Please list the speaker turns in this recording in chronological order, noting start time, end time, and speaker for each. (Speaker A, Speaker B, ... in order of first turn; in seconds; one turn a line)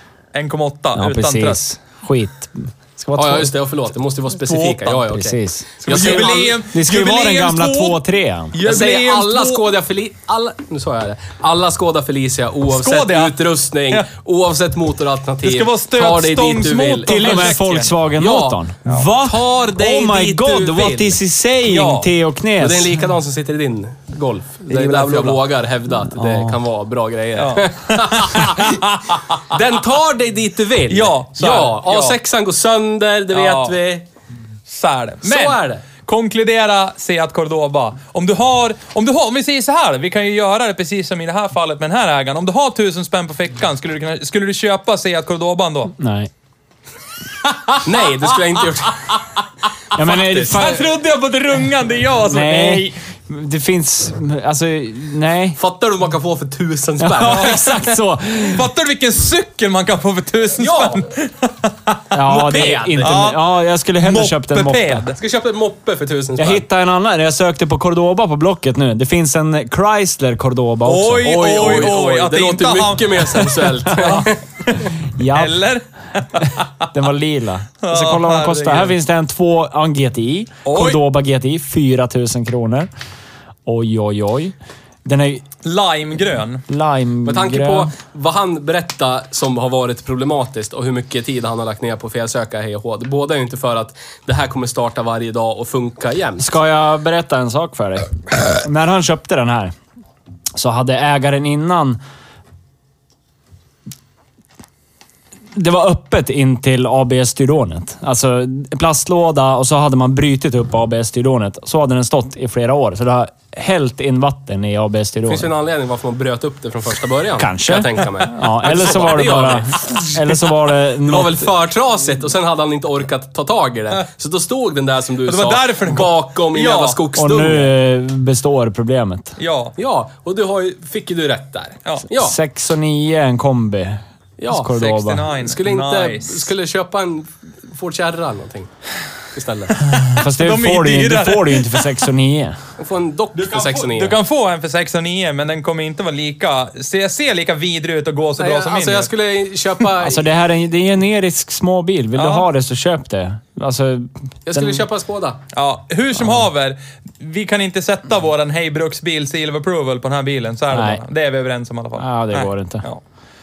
Speaker A: 0.3-1.6
Speaker B: 0.9-3.5
Speaker C: 3.2-6.6
Speaker A: 4.5-4.8
Speaker B: 4.9-8.6
Speaker A: 5.8-8.0
Speaker A: 8.5-9.6
Speaker C: 8.7-17.6
Speaker A: 12.7-13.4
Speaker A: 15.4-18.0
Speaker B: 17.1-23.0
Speaker C: 18.2-21.2
Speaker A: 21.6-22.1
Speaker C: 22.6-28.8
Speaker A: 24.7-25.4
Speaker B: 26.2-26.5
Speaker A: 27.4-29.6
Speaker C: 29.3-34.1
Speaker A: 30.9-32.2
Speaker A: 33.3-33.8
Speaker A: 34.7-46.0
Speaker C: 35.2-35.9
Speaker B: 46.0-46.3
Speaker A: 47.4-53.0
Speaker C: 47.8-49.1
Speaker B: 49.9-50.9
Speaker B: 52.3-55.6
Speaker C: 55.6-57.5
Speaker B: 57.0-58.6
Speaker A: 57.2-63.4
Speaker C: 60.6-61.1
Speaker B: 62.1-65.1
Speaker C: 62.3-63.2
Speaker A: 64.0-65.2
Speaker C: 65.2-66.7
Speaker B: 66.4-71.5
Speaker A: 70.8-73.2
Speaker C: 71.2-74.4
Speaker B: 73.9-74.3
Speaker A: 74.0-76.9
Speaker B: 75.0-75.6
Speaker B: 76.4-82.9
Speaker A: 77.8-79.0
Speaker A: 80.7-81.0
Speaker B: 83.7-84.5
Speaker B: 85.0-85.5
Speaker A: 85.6-86.6
Speaker B: 86.7-87.9
Speaker C: 87.2-96.5
Speaker B: 96.4-99.7
Speaker B: 100.6-102.0
Speaker B: 105.5-115.5
Speaker C: 115.3-120.5
Speaker B: 117.4-121.5
Speaker C: 121.0-127.7
Speaker A: 125.2-127.0
Speaker B: 127.2-129.4
Speaker A: 129.4-129.8
Speaker C: 129.8-132.4
Speaker B: 132.1-135.2
Speaker C: 134.4-134.7
Speaker A: 134.7-136.5
Speaker C: 135.3-138.7
Speaker C: 139.3-139.8
Speaker A: 139.9-142.1
Speaker B: 140.1-142.6
Speaker C: 142.8-144.2
Speaker A: 143.3-149.1
Speaker C: 148.4-150.3
Speaker B: 150.0-154.8
Speaker A: 152.2-152.5
Speaker C: 154.5-155.4
Speaker A: 155.5-163.0
Speaker B: 160.7-161.0
Speaker B: 162.0-162.9